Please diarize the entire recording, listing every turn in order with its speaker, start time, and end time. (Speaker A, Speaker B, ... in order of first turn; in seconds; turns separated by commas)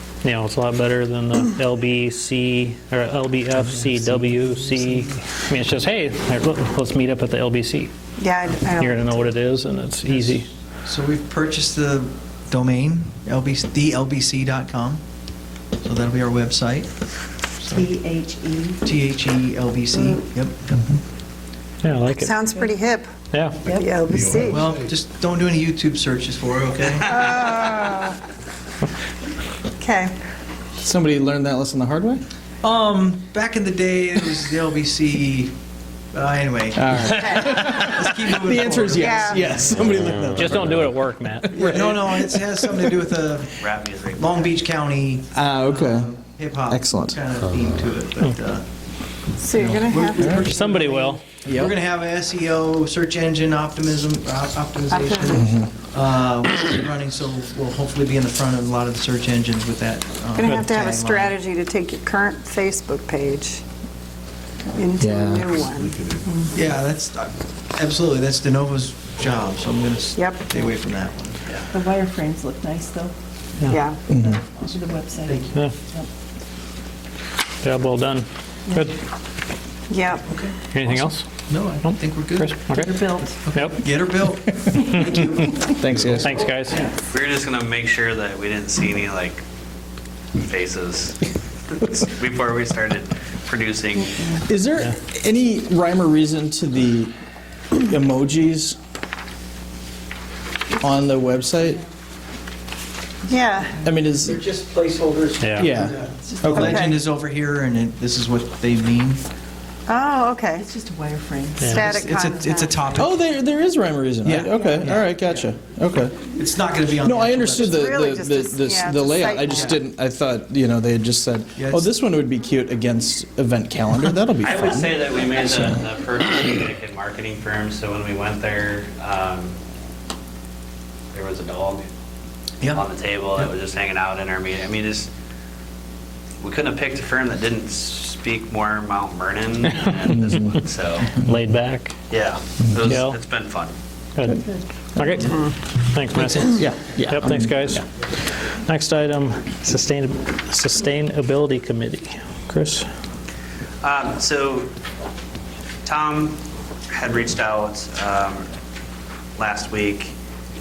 Speaker A: 0.2-7.9, Speaker B: 8.2-9.3, Speaker A: 8.6-10.5, Speaker C: 10.1-15.0, Speaker C: 15.8-16.9, Speaker D: 17.7-18.8, Speaker C: 18.8-21.0, Speaker A: 21.8-22.4, Speaker B: 22.1-23.1, Speaker A: 23.3-23.6, Speaker D: 23.6-24.0, Speaker B: 23.7-24.7, Speaker C: 24.4-27.7, Speaker B: 27.1-28.2, Speaker B: 29.8-30.1, Speaker E: 30.8-32.2, Speaker C: 32.6-35.5, Speaker C: 36.1-39.9, Speaker E: 36.8-43.0, Speaker B: 38.9-39.5, Speaker A: 40.3-41.6, Speaker C: 41.6-48.7, Speaker F: 43.6-44.4, Speaker E: 45.3-46.1, Speaker E: 46.7-47.2, Speaker B: 49.4-50.4, Speaker C: 49.5-61.3, Speaker E: 50.2-50.5, Speaker A: 50.4-51.2, Speaker E: 51.5-51.8, Speaker B: 54.9-55.5, Speaker E: 55.3-55.7, Speaker B: 60.4-63.6, Speaker B: 64.7-66.1, Speaker E: 65.0-65.5, Speaker C: 66.5-71.6, Speaker B: 70.2-70.4, Speaker D: 71.7-73.1, Speaker B: 73.7-74.0, Speaker E: 74.1-74.4, Speaker D: 74.3-76.1, Speaker C: 75.2-75.6, Speaker A: 77.6-79.0, Speaker B: 79.9-80.2, Speaker C: 80.3-82.6, Speaker A: 80.7-81.2, Speaker A: 81.8-83.0, Speaker D: 82.7-83.4, Speaker C: 83.4-86.8, Speaker A: 83.5-83.8, Speaker A: 84.9-85.2, Speaker E: 85.8-86.3, Speaker A: 86.1-86.8, Speaker F: 87.1-89.4, Speaker F: 90.4-91.2, Speaker F: 91.8-94.4, Speaker E: 94.5-97.1, Speaker E: 97.8-98.8, Speaker E: 100.8-101.8, Speaker B: 103.3-103.8, Speaker D: 103.5-104.0, Speaker E: 103.8-104.4, Speaker C: 104.2-109.2, Speaker A: 105.4-105.8, Speaker E: 105.6-106.8, Speaker B: 106.5-106.9, Speaker B: 109.9-110.7, Speaker D: 110.5-113.0, Speaker A: 111.6-111.9, Speaker B: 111.6-112.9, Speaker C: 111.7-113.1, Speaker E: 113.0-116.2, Speaker C: 114.2-115.5, Speaker C: 116.2-117.8, Speaker E: 117.0-125.8, Speaker B: 117.5-119.8, Speaker C: 119.5-119.8, Speaker C: 121.6-121.9, Speaker F: 124.4-129.6, Speaker F: 131.1-131.9, Speaker C: 132.6-133.5, Speaker F: 132.7-135.1, Speaker F: 136.4-141.1, Speaker E: 140.1-140.6, Speaker A: 141.2-142.0, Speaker F: 142.1-143.7, Speaker A: 142.8-143.2, Speaker A: 144.2-144.4, Speaker A: 145.0-152.9, Speaker E: 145.0-145.2, Speaker E: 146.4-147.8, Speaker F: 153.8-154.7, Speaker F: 155.8-158.5, Speaker F: 159.4-160.2